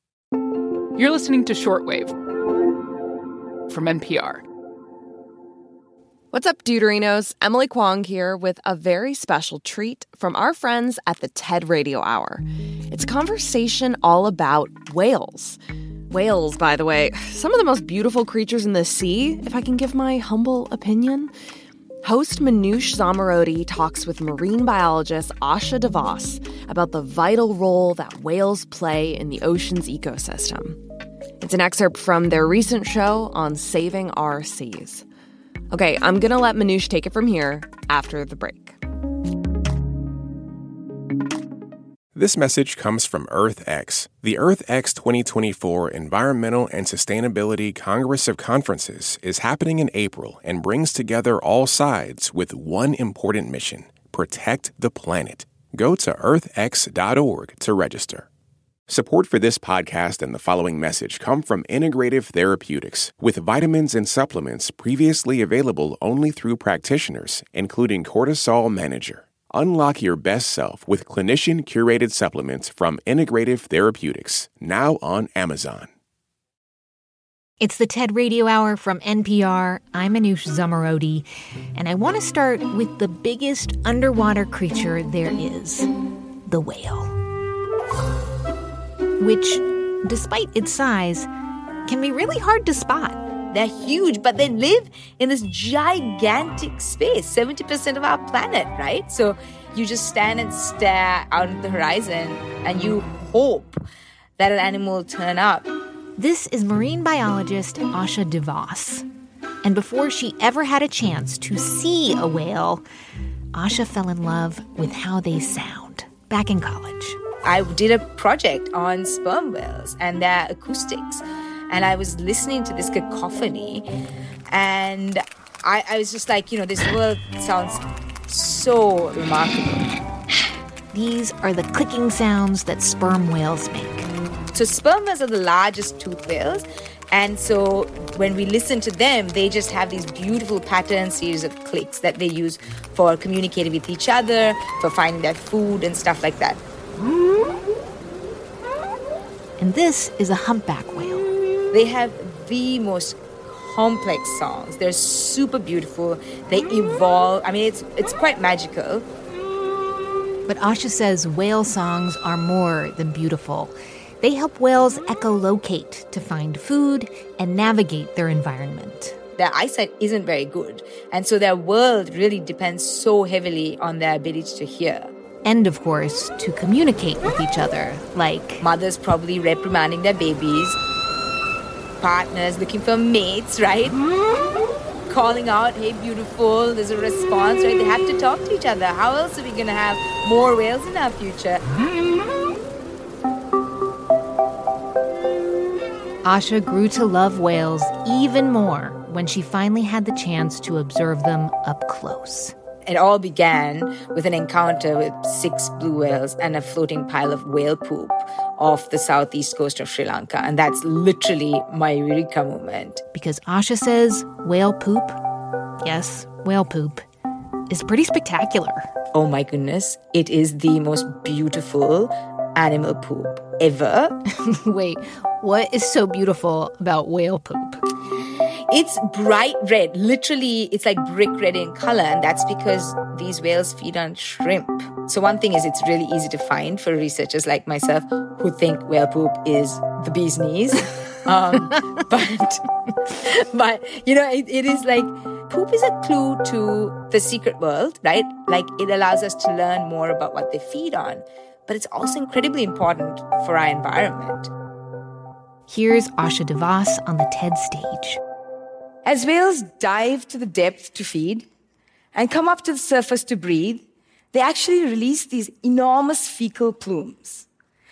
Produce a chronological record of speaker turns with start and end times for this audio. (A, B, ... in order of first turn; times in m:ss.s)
0:01.0-0:02.2 A
0:03.7-0:04.4 A
0:06.3-0:15.6 B
0:16.1-0:21.3 B
0:22.0-0:30.8 B
0:31.4-0:35.0 B
0:35.7-0:38.8 B
0:42.1-0:58.3 C
0:58.9-1:15.9 C
1:17.6-1:21.2 D
1:21.8-1:25.9 D
1:26.5-1:27.1 D
1:29.2-1:31.3 D
1:31.9-1:33.2 D
1:33.5-1:43.8 E
1:44.4-1:45.7 E
1:46.2-1:49.0 D
1:49.6-1:52.8 D
1:53.5-1:57.2 D
1:57.4-2:03.9 E
2:04.5-2:09.9 E
2:10.9-2:14.1 D
2:14.5-2:26.6 E
2:29.6-2:31.3 D
2:31.7-2:39.0 E
2:40.5-2:49.2 D
2:49.4-2:55.1 E
2:55.4-2:58.6 D
2:58.6-3:00.8 E
3:02.0-3:04.0 E
3:05.1-3:11.6 E
3:16.2-3:22.5 D
3:22.9-3:33.0 E
3:33.1-3:35.2 D
3:35.8-3:37.0 D
3:37.7-3:38.9 D
3:39.1-3:44.2 E
3:44.3-3:47.8 D
3:48.7-4:14.5 E
4:15.7-4:18.2 D
4:19.0-4:21.4 E
4:22.1-4:27.4 E